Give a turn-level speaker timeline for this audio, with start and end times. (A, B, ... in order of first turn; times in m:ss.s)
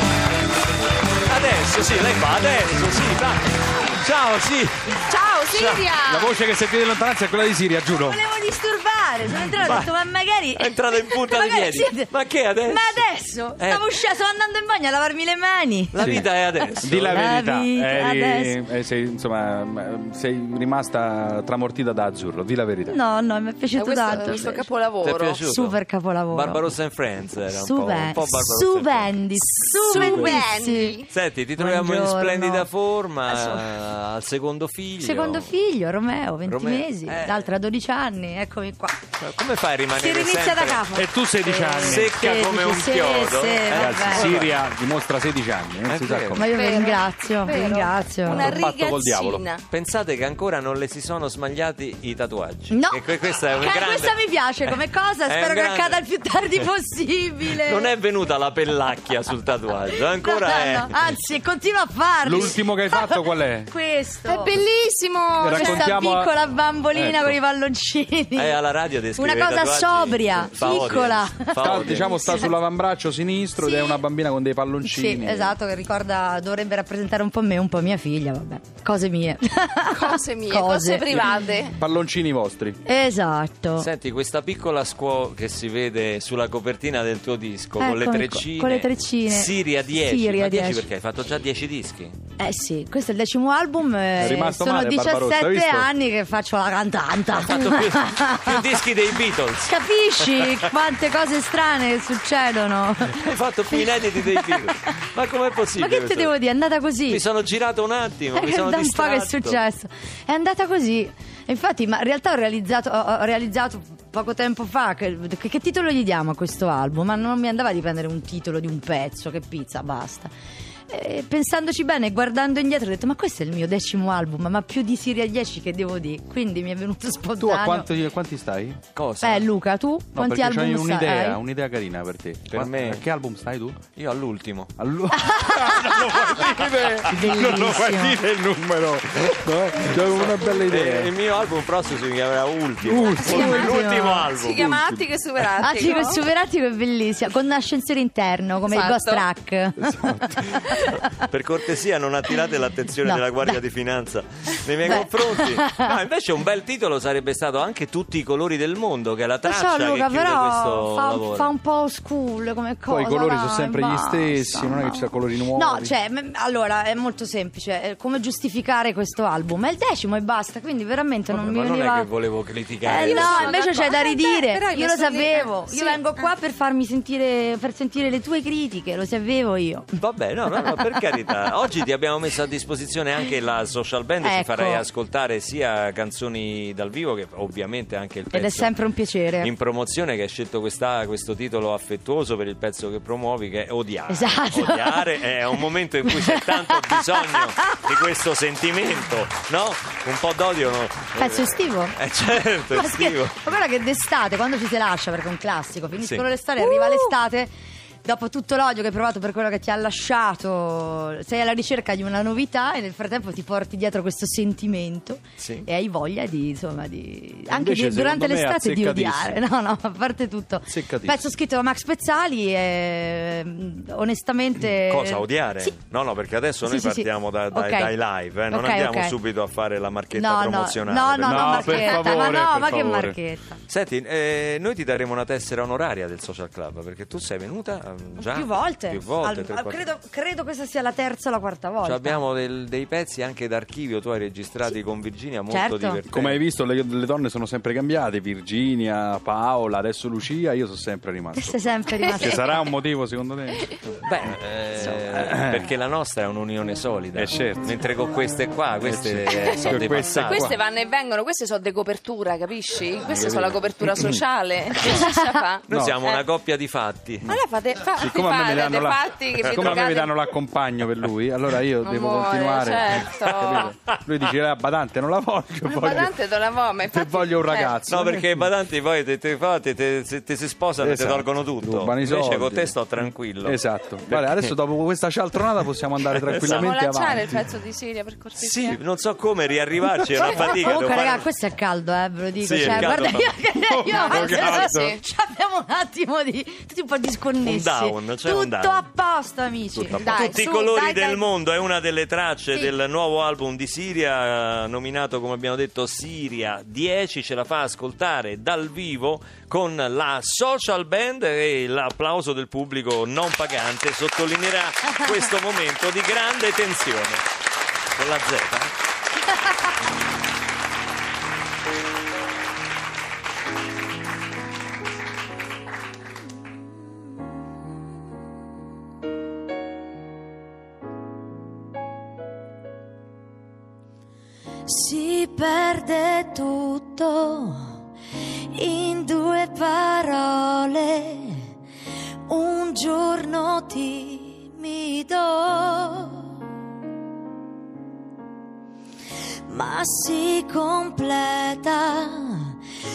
0:01.3-0:05.9 A
0:05.1-0:06.3 B
0:06.1-0:08.2 C
0:07.9-0:16.2 D
0:09.6-0:10.0 A
0:10.6-0:13.9 A
0:15.9-0:17.3 A
0:16.0-0:23.0 C
0:17.0-0:18.6 D
0:22.9-0:24.7 D
0:23.7-0:25.4 B
0:25.0-0:29.3 A
0:25.4-0:26.7 D
0:27.5-0:31.0 D
0:29.8-0:31.1 B
0:29.9-0:30.4 C
0:31.1-0:35.6 A
0:31.6-0:32.7 D
0:33.3-0:33.7 D
0:35.0-0:39.0 D
0:36.5-0:37.5 A
0:39.2-0:40.8 A
0:39.9-0:44.4 D
0:40.9-0:42.2 C
0:41.8-0:44.6 A
0:43.7-0:46.5 C
0:45.9-0:46.5 A
0:46.4-0:48.5 D
0:46.5-0:49.6 B
0:48.3-0:49.4 C
0:49.7-0:56.7 A
0:52.7-0:57.9 D
0:57.4-1:01.0 A
1:00.0-1:04.6 D
1:02.2-1:03.7 C
1:04.2-1:06.0 B
1:05.4-1:06.4 C
1:05.4-1:08.6 D
1:06.9-1:07.4 C
1:08.4-1:12.6 A
1:09.2-1:12.5 D
1:11.6-1:15.6 C
1:13.6-1:14.0 D
1:14.8-1:21.5 D
1:19.9-1:21.8 B
1:21.8-1:22.8 C
1:22.9-1:23.9 D
1:23.8-1:32.2 A
1:27.8-1:30.9 D
1:32.4-1:38.6 D
1:34.2-1:35.9 C
1:37.3-1:40.7 A
1:39.7-1:44.7 D
1:43.1-1:46.4 A
1:45.8-1:47.2 D
1:47.1-1:49.6 A
1:48.3-2:00.3 D
2:00.9-2:07.9 D
2:07.4-2:08.8 C
2:09.0-2:09.5 A
2:09.2-2:11.4 D
2:10.2-2:13.8 C
2:12.5-2:13.1 A
2:14.0-2:14.7 A
2:14.8-2:21.2 C
2:15.1-2:16.2 D
2:15.8-2:17.8 A
2:17.1-2:18.2 D
2:20.0-2:24.7 A
2:22.8-2:23.8 C
2:23.2-2:24.4 D
2:24.4-2:26.2 B
2:24.5-2:25.0 C
2:25.6-2:31.1 D
2:28.6-2:29.3 B
2:29.8-2:30.6 C
2:31.1-2:41.5 A
2:33.0-2:33.6 D
2:34.8-2:35.9 D
2:39.5-2:52.1 D
2:42.9-2:45.9 C
2:51.3-2:53.6 A
2:52.8-3:00.0 D
2:53.0-2:56.3 B
3:00.0-3:08.8 A
3:00.6-3:00.9 D
3:04.2-3:04.9 D
3:08.3-3:09.5 D
3:09.4-3:23.4 A
3:14.1-3:16.8 D
3:21.2-3:22.0 D
3:22.7-3:27.5 D
3:26.0-3:27.2 A
3:28.0-3:45.8 D
3:35.4-3:35.7 A
3:37.5-3:39.4 C
3:40.7-3:41.2 C
3:44.7-3:52.3 A
3:46.6-3:49.2 D
3:50.1-3:53.6 D
3:51.2-3:53.2 C
3:53.7-3:59.8 A
3:58.2-4:02.2 D
4:01.8-4:06.4 A
4:05.5-4:06.0 D
4:06.1-4:13.8 C
4:11.4-4:12.6 D
4:14.0-4:20.5 A
4:14.7-4:15.7 C
4:17.1-4:17.8 C
4:18.8-4:20.6 C
4:20.2-4:26.2 B
4:23.0-4:24.2 C
4:25.7-4:27.3 A
4:25.7-4:26.0 C
4:27.3-4:30.2 B
4:27.9-4:36.1 C
4:29.5-4:29.9 A
4:31.8-4:33.8 B
4:33.4-4:34.0 A
4:35.6-4:37.8 B
4:36.8-4:38.5 C
4:37.9-4:44.6 A
4:40.8-4:47.4 C
4:46.1-4:46.7 A
4:46.5-4:48.8 B
4:48.4-4:51.3 A
4:50.2-5:00.4 D
4:52.4-4:53.5 A
4:52.5-4:53.0 C
4:53.6-4:54.9 C
4:53.9-4:55.0 B
4:57.4-4:58.9 A
4:59.8-5:17.3 A
5:00.0-5:01.3 B
5:17.9-5:18.7 A
5:34.7-5:36.6 E
5:35.4-5:37.8 D
5:38.6-5:41.5 D
5:38.9-5:40.2 E
5:42.3-5:46.4 D
5:49.5-5:52.6 D
5:49.6-5:50.7 E